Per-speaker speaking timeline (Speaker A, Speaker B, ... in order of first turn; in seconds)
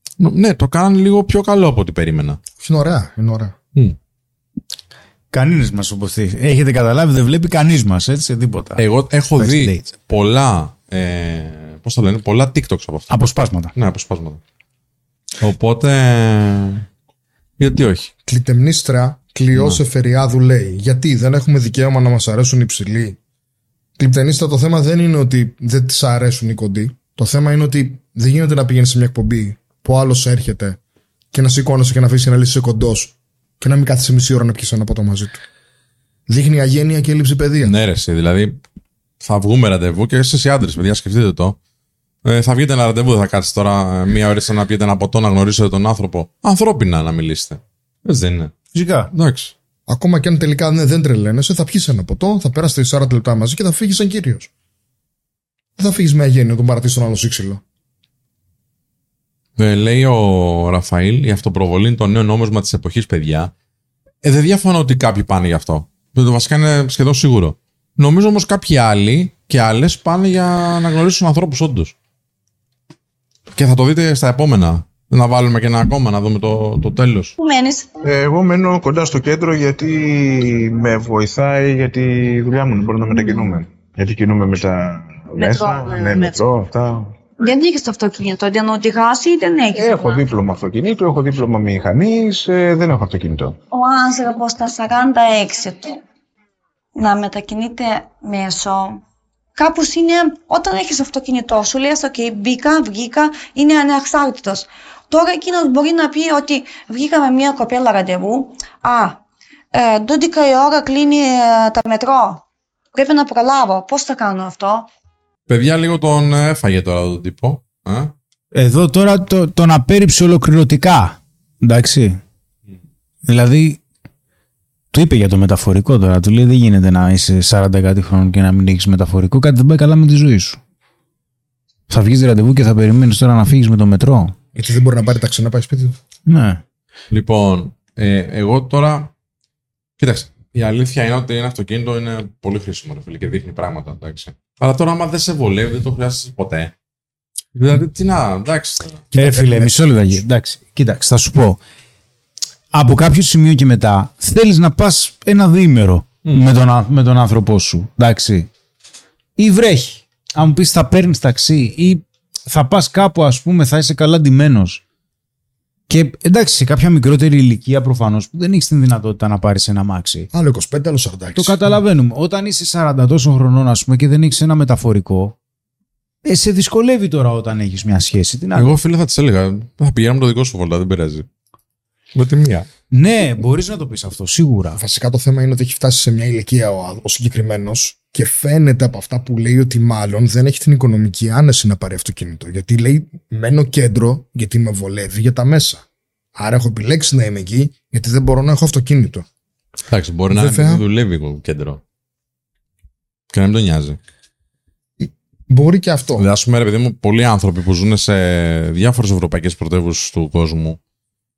Speaker A: 0.2-2.4, 8.8-14.4, 15.4-16.9, 17.6-18.1, 19.6-19.8, 37.6-38.6, 39.2-41.6, 42.2-48.5, 49.1-49.5, 59.6-63.5, 64.2-71.9, 73.5-77.4, 115.5-118.1, 137.1-139.1, 140.0-146.7, 147.6-149.1, 178.6-181.3, 182.2-182.7, 199.9-201.8, 203.3-204.0, 206.2-210.8
Speaker B: 2.6-3.5, 18.3-23.2, 24.0-30.8, 31.3-35.4, 36.3-37.8, 49.9-54.5, 55.8-57.6, 134.6-136.0, 149.2-149.7, 170.3-171.6, 184.8-199.2, 200.3-200.8, 205.0-206.2
Speaker C: 5.3-8.8, 9.4-9.9, 13.1-13.7, 48.7-49.1, 118.5-122.2, 123.3-123.8, 124.9-130.6, 131.9-134.3, 136.3-136.6, 149.1-151.6, 152.7-158.5, 159.4-164.8, 165.9-170.3, 171.3-175.3, 176.2-178.7, 182.9-184.8
Speaker D: 77.4-77.9, 85.4-86.4, 87.4-90.2, 93.7-96.0, 97.0-99.0, 99.6-109.2, 109.7-114.9
Speaker E: 78.0-87.1, 89.7-93.6